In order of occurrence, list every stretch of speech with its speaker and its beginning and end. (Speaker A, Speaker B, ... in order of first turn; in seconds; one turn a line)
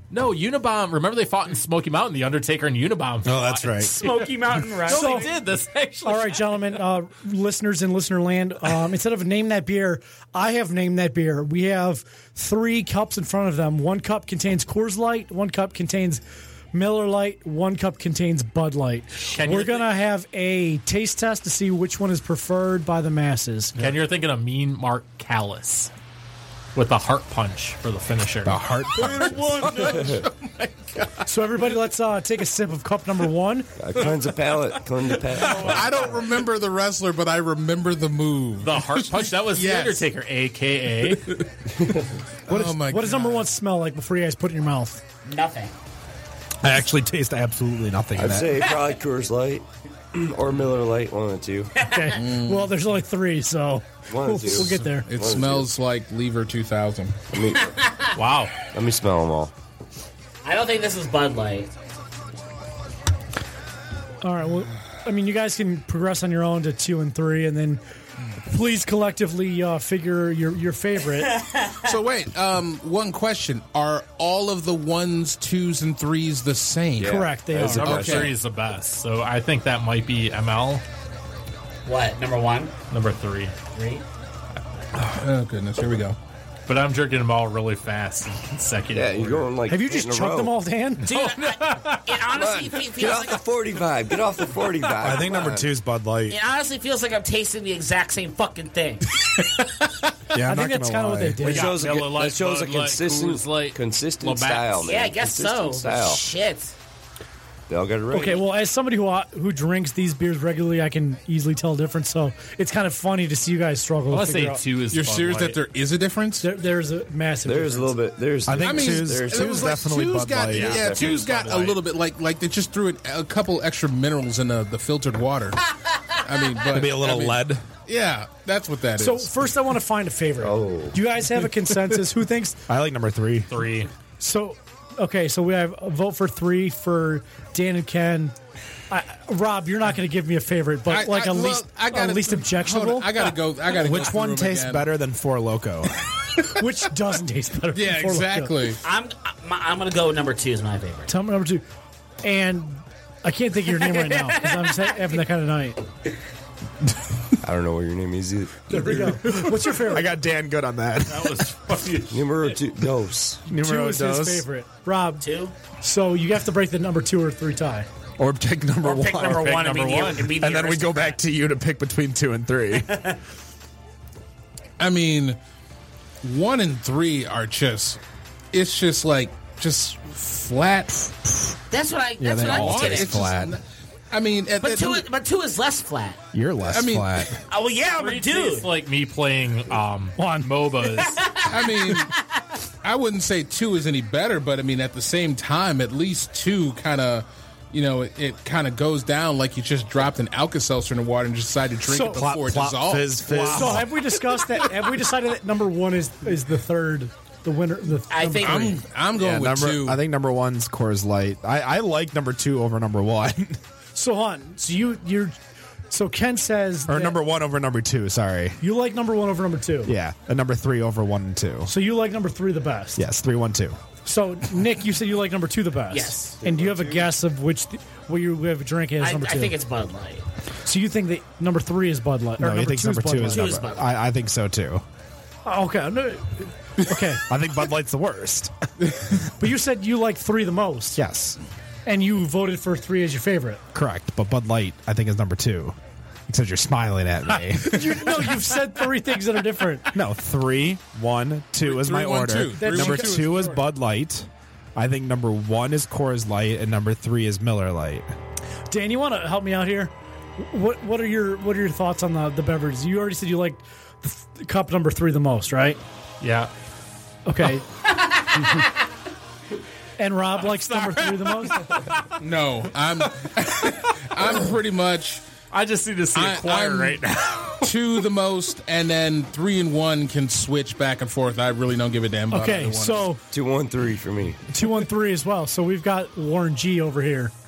Speaker A: 0.1-6.7
Speaker B: 3.2-4.7
Speaker C: 3.8-5.3
Speaker D: 4.9-5.3
Speaker D: 6.0-16.2
Speaker D: 16.7-23.8
Speaker A: 19.2-19.9
Speaker A: 23.8-25.9
Speaker A: 26.8-30.0
Speaker B: 28.4-29.4
Speaker E: 29.1-31.2
Speaker F: 29.9-30.2
Speaker D: 31.2-33.7
Speaker F: 33.8-36.0
Speaker C: 35.4-36.3
Speaker E: 35.4-40.0
Speaker A: 38.6-41.4
Speaker E: 41.1-41.5
Speaker F: 41.8-42.1
Speaker E: 42.5-43.5
Speaker D: 42.5-45.0
Speaker C: 45.2-45.7
Speaker B: 46.6-48.7
Speaker F: 48.2-51.7
Speaker C: 51.8-52.2
Speaker D: 51.8-55.1
Speaker E: 52.1-52.8
Speaker F: 54.1-55.7
Speaker E: 54.5-57.3
Speaker F: 57.3-57.8
Speaker C: 57.6-58.1
Speaker A: 58.1-58.5
Speaker F: 58.7-59.5
Speaker C: 60.4-61.7
Speaker D: 64.2-67.8
Speaker D: 68.5-71.4
Speaker C: 71.4-71.9
Speaker E: 71.8-78.3
Speaker F: 77.0-78.3
Speaker D: 77.0-78.2
Speaker A: 77.9-80.8
Speaker C: 81.8-82.8
Speaker A: 82.9-83.5
Speaker C: 83.7-84.0
Speaker E: 85.0-86.2
Speaker A: 86.7-89.5
Speaker F: 88.9-90.6
Speaker D: 89.7-91.1
Speaker C: 91.0-93.4
Speaker A: 91.0-92.2
Speaker F: 92.3-95.7
Speaker B: 95.0-96.4
Speaker C: 96.3-99.0
Speaker B: 100.3-101.4
Speaker D: 100.5-101.7
Speaker F: 101.4-106.3
Speaker A: 101.4-104.8
Speaker C: 104.8-106.7
Speaker F: 107.7-108.5
Speaker D: 108.1-114.6
Speaker A: 114.1-115.6
Speaker E: 114.9-116.5
Speaker D: 116.4-118.0
Speaker F: 117.5-119.8
Speaker B: 118.5-121.0
Speaker E: 118.6-125.7
Speaker A: 120.5-121.8
Speaker F: 120.6-121.2
Speaker C: 125.8-126.6
Speaker E: 126.2-129.4
Speaker B: 126.7-127.6
Speaker D: 129.0-132.6
Speaker F: 130.4-131.0
Speaker B: 132.7-133.5
Speaker A: 133.5-133.9
Speaker D: 134.2-138.4
Speaker D: 138.9-143.3
Speaker E: 140.9-144.9
Speaker B: 143.8-146.1
Speaker D: 146.5-148.6
Speaker E: 147.7-148.8
Speaker C: 148.8-151.1
Speaker D: 151.1-151.7
Speaker D: 152.2-155.8
Speaker C: 153.8-155.1
Speaker F: 157.4-159.3
Speaker D: 158.7-160.2
Speaker B: 159.5-161.5
Speaker A: 161.1-162.6
Speaker F: 162.1-163.4
Speaker B: 163.5-164.5
Speaker D: 163.5-165.2
Speaker C: 165.2-165.5
Speaker D: 165.8-167.9
Speaker B: 168.2-169.5
Speaker C: 168.8-171.2
Speaker A: 169.2-170.4
Speaker B: 170.3-173.1
Speaker C: 172.9-173.2
Speaker E: 174.8-175.4
Speaker E: 176.2-178.0
Speaker E: 178.5-181.6
Speaker C: 181.7-183.3
Speaker B: 182.2-183.6
Speaker E: 182.4-185.1
Speaker C: 184.6-186.2
Speaker B: 186.3-187.4
Speaker E: 186.7-187.3
Speaker C: 187.5-188.7
Speaker A: 188.0-191.3
Speaker D: 190.2-190.5
Speaker C: 191.0-192.2
Speaker E: 191.5-192.1
Speaker E: 192.8-203.8
Speaker D: 201.9-202.2
Speaker B: 202.1-204.0
Speaker D: 203.4-208.8
Speaker C: 208.1-208.8
Speaker E: 208.4-210.0
Speaker B: 209.2-213.6
Speaker D: 213.9-215.4
Speaker D: 215.9-217.2
Speaker B: 216.9-218.6
Speaker D: 218.6-219.9
Speaker B: 219.8-221.7
Speaker D: 221.7-223.0
Speaker B: 223.0-223.8
Speaker D: 224.1-229.6
Speaker C: 225.9-226.4
Speaker F: 226.4-227.1
Speaker C: 229.0-230.2
Speaker D: 230.7-233.6
Speaker B: 232.4-234.8
Speaker C: 233.3-233.9
Speaker D: 235.4-237.2
Speaker B: 237.3-238.5
Speaker D: 239.4-241.0
Speaker B: 241.0-241.4
Speaker D: 241.9-243.6
Speaker B: 243.7-245.8
Speaker B: 246.3-248.4
Speaker D: 247.6-249.9
Speaker B: 249.9-258.1
Speaker E: 251.6-253.6
Speaker D: 252.6-253.6
Speaker D: 258.7-265.8
Speaker A: 266.2-266.5
Speaker D: 267.3-267.7
Speaker C: 268.1-268.5
Speaker D: 270.0-271.7
Speaker A: 270.4-272.1
Speaker E: 272.2-275.2
Speaker A: 275.5-277.7
Speaker E: 276.1-277.0
Speaker E: 277.6-283.1
Speaker D: 282.3-283.2
Speaker F: 283.3-284.4
Speaker D: 284.5-287.3